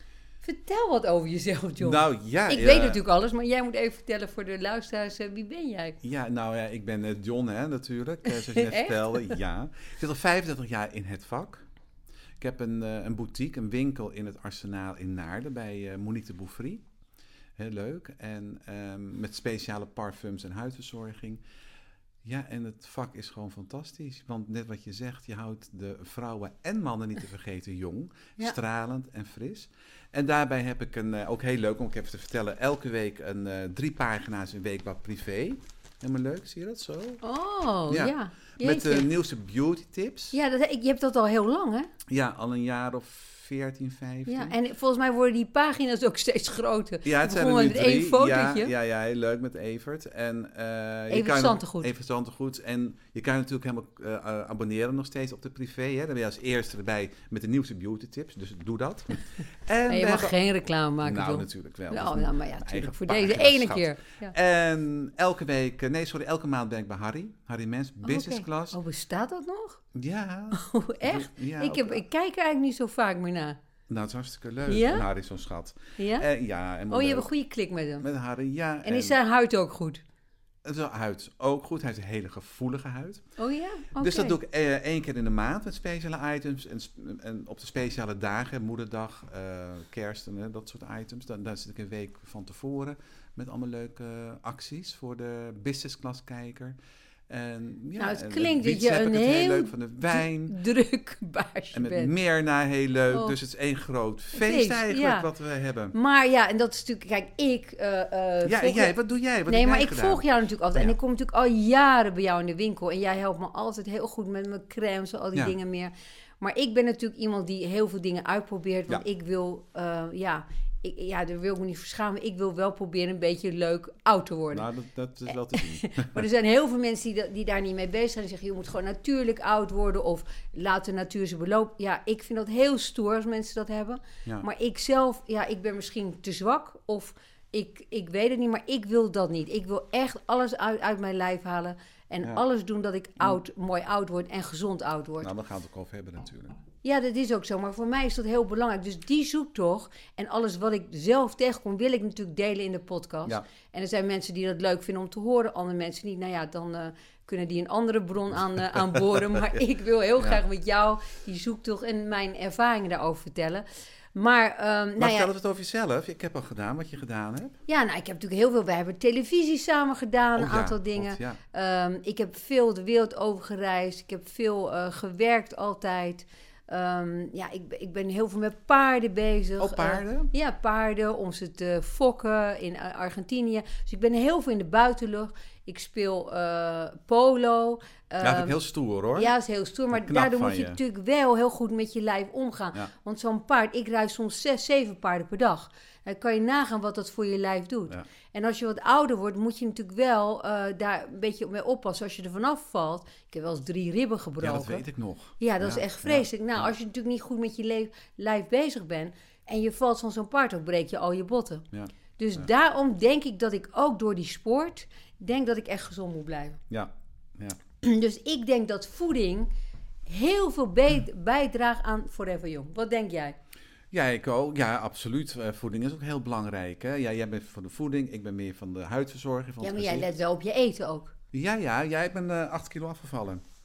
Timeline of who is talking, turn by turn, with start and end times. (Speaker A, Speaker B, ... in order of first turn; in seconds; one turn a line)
Speaker A: 0.4-6.0
Speaker B: 1.8-3.0
Speaker B: 6.0-11.6
Speaker A: 8.4-9.3
Speaker B: 12.4-16.8
Speaker B: 17.6-21.4
Speaker B: 22.2-37.2
Speaker A: 37.2-39.1
Speaker B: 37.9-40.4
Speaker A: 40.3-41.9
Speaker B: 42.1-44.5
Speaker A: 44.3-48.7
Speaker B: 47.0-60.4
Speaker A: 51.1-51.9
Speaker A: 59.9-64.3
Speaker B: 61.0-68.8
Speaker A: 68.0-69.8
Speaker B: 69.9-72.0
Speaker A: 70.5-73.6
Speaker B: 73.9-77.3
Speaker A: 74.7-75.0
Speaker A: 76.0-76.3
Speaker A: 76.9-78.1
Speaker B: 78.0-79.2
Speaker A: 78.8-80.0
Speaker B: 80.6-83.2
Speaker A: 83.4-84.4
Speaker B: 84.0-96.8
Speaker B: 97.3-100.5
Speaker A: 98.0-102.1
Speaker B: 101.7-105.9
Speaker A: 103.1-103.4
Speaker A: 104.3-105.3
Speaker A: 105.9-108.9
Speaker B: 108.4-111.0
Speaker A: 109.5-124.7
Speaker B: 124.5-126.2
Speaker A: 125.3-145.3
Speaker B: 145.2-146.5
Speaker A: 146.8-165.3
Speaker B: 158.6-159.6
Speaker B: 165.0-167.6
Speaker A: 167.7-188.6
Speaker B: 170.3-171.4
Speaker B: 179.6-180.3
Speaker B: 188.2-189.3
Speaker A: 189.1-204.8
Speaker B: 189.9-190.8
Speaker B: 204.4-206.7
Speaker A: 205.4-211.7
Speaker B: 211.7-212.4
Speaker A: 212.2-216.6
Speaker B: 216.7-217.6
Speaker A: 217.8-219.5
Speaker A: 220.1-223.4
Speaker B: 223.9-230.1
Speaker A: 229.6-231.1
Speaker B: 231.3-233.4